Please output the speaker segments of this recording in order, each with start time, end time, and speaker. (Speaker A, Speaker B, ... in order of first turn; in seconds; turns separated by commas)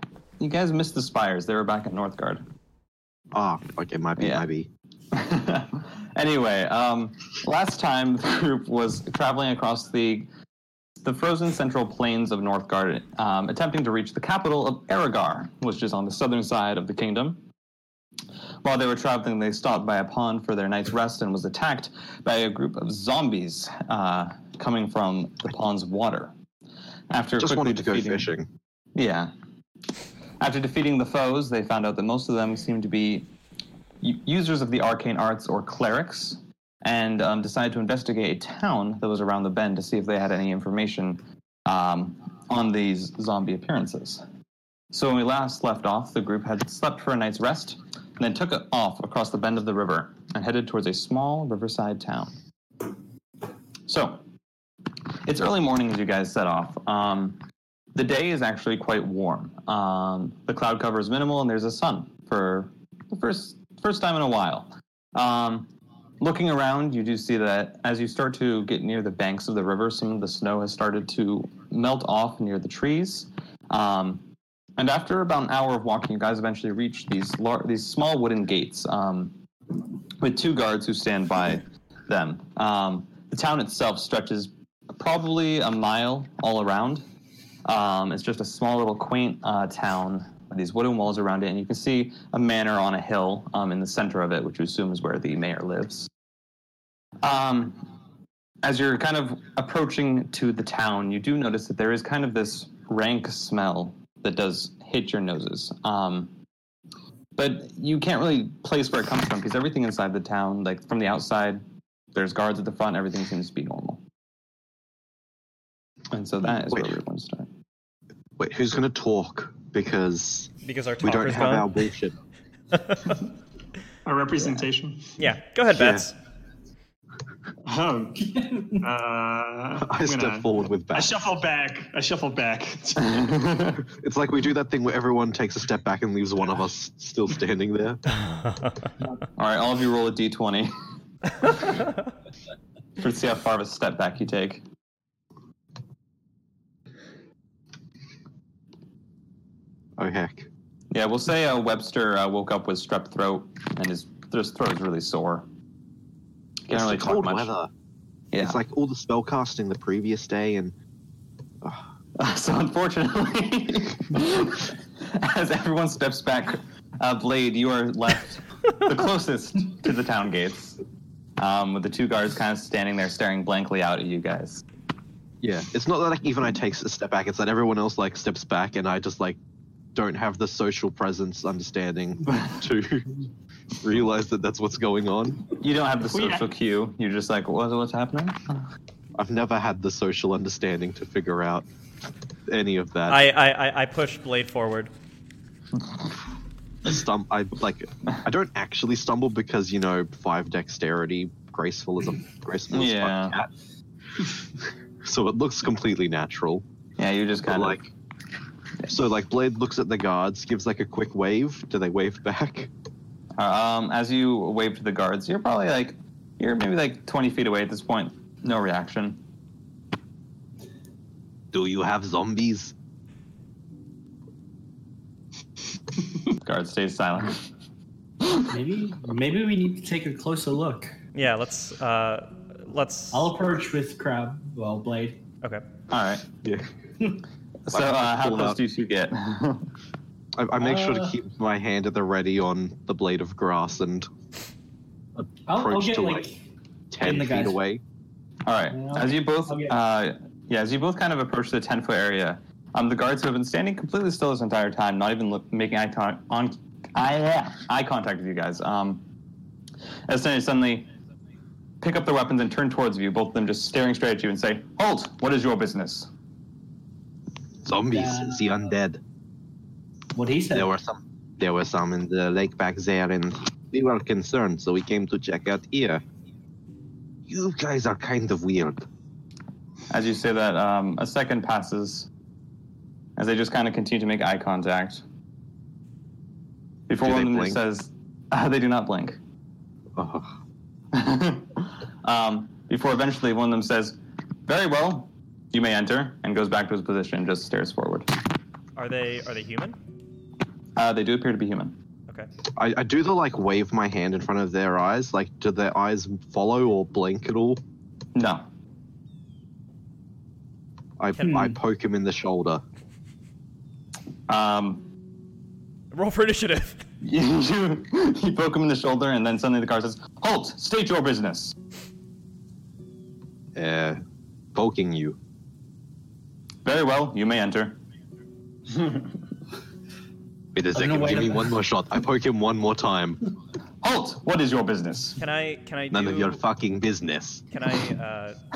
Speaker A: 0.4-2.4, Speaker B: 3.3-4.7, Speaker A: 4.2-4.4, Speaker A: 5.1-10.3, Speaker A: 11.0-17.4, Speaker A: 18.6-26.3, Speaker A: 27.1-28.3, Speaker B: 27.4-28.5, Speaker A: 28.9-29.3, Speaker A: 30.4-33.3, Speaker A: 34.0-44.2, Speaker A: 44.9-52.3, Speaker A: 53.9-54.2, Speaker A: 55.3-57.4, Speaker A: 57.9-65.7, Speaker A: 66.2-79.4, Speaker A: 80.2-87.1, Speaker A: 87.7-96.1, Speaker A: 97.2-97.8, Speaker A: 98.6-106.3, Speaker A: 107.4-114.0, Speaker A: 116.1-117.5, Speaker B: 118.4-120.5, Speaker C: 120.6-121.7, Speaker B: 121.0-122.2, Speaker C: 122.7-123.2, Speaker D: 124.0-125.2, Speaker C: 125.2-126.1, Speaker B: 125.8-126.1, Speaker D: 127.7-133.4, Speaker E: 128.3-128.8, Speaker B: 129.8-131.2, Speaker A: 133.1-133.8, Speaker B: 134.0-138.0, Speaker C: 138.1-138.6, Speaker A: 139.4-140.7, Speaker A: 143.0-144.6, Speaker B: 150.0-150.5, Speaker A: 150.9-155.5, Speaker A: 156.7-157.5, Speaker B: 156.7-157.7, Speaker A: 158.3-158.6, Speaker B: 158.4-160.8, Speaker B: 161.6-161.9, Speaker A: 162.2-170.8, Speaker A: 171.4-174.6, Speaker B: 175.4-179.4, Speaker B: 179.9-183.2, Speaker B: 183.8-185.4, Speaker A: 185.6-188.6, Speaker D: 186.1-186.4, Speaker B: 189.2-191.7, Speaker B: 192.5-193.3, Speaker C: 193.1-194.9, Speaker B: 196.8-203.5, Speaker A: 202.7-203.4, Speaker B: 205.0-206.7, Speaker A: 207.0-207.8, Speaker B: 207.5-207.9, Speaker B: 208.9-212.7, Speaker A: 213.4-219.2, Speaker B: 221.5-222.7, Speaker A: 226.3-227.4, Speaker E: 228.5-230.9, Speaker C: 231.1-233.3, Speaker E: 233.1-235.2, Speaker A: 235.9-236.3, Speaker A: 237.7-239.7, Speaker B: 237.7-238.6, Speaker B: 240.4-244.1, Speaker E: 240.6-241.2, Speaker B: 245.2-246.3, Speaker E: 245.5-246.4, Speaker B: 246.9-247.8, Speaker E: 247.0-247.6, Speaker A: 248.5-259.0, Speaker E: 248.7-249.8, Speaker A: 260.1-260.9, Speaker A: 261.8-266.1, Speaker B: 267.6-269.0, Speaker E: 267.9-268.5, Speaker E: 270.1-270.7, Speaker B: 270.5-276.0, Speaker B: 277.3-278.9, Speaker A: 279.9-282.1, Speaker A: 283.2-285.0, Speaker A: 286.9-289.2, Speaker B: 287.0-287.6, Speaker B: 290.0-290.3, Speaker A: 290.9-298.1, Speaker C: 298.8-299.8, Speaker A: 300.8-301.8, Speaker B: 302.6-307.6, Speaker A: 308.1-308.5, Speaker B: 311.0-312.6, Speaker E: 311.2-311.6, Speaker A: 314.3-314.9, Speaker C: 315.9-316.9, Speaker A: 317.0-321.6, Speaker B: 323.6-324.0, Speaker B: 324.6-325.2, Speaker A: 326.6-327.8, Speaker B: 330.6-333.2, Speaker E: 330.7-331.6, Speaker A: 333.8-335.2, Speaker C: 335.2-336.4, Speaker B: 335.9-337.4, Speaker C: 337.5-338.4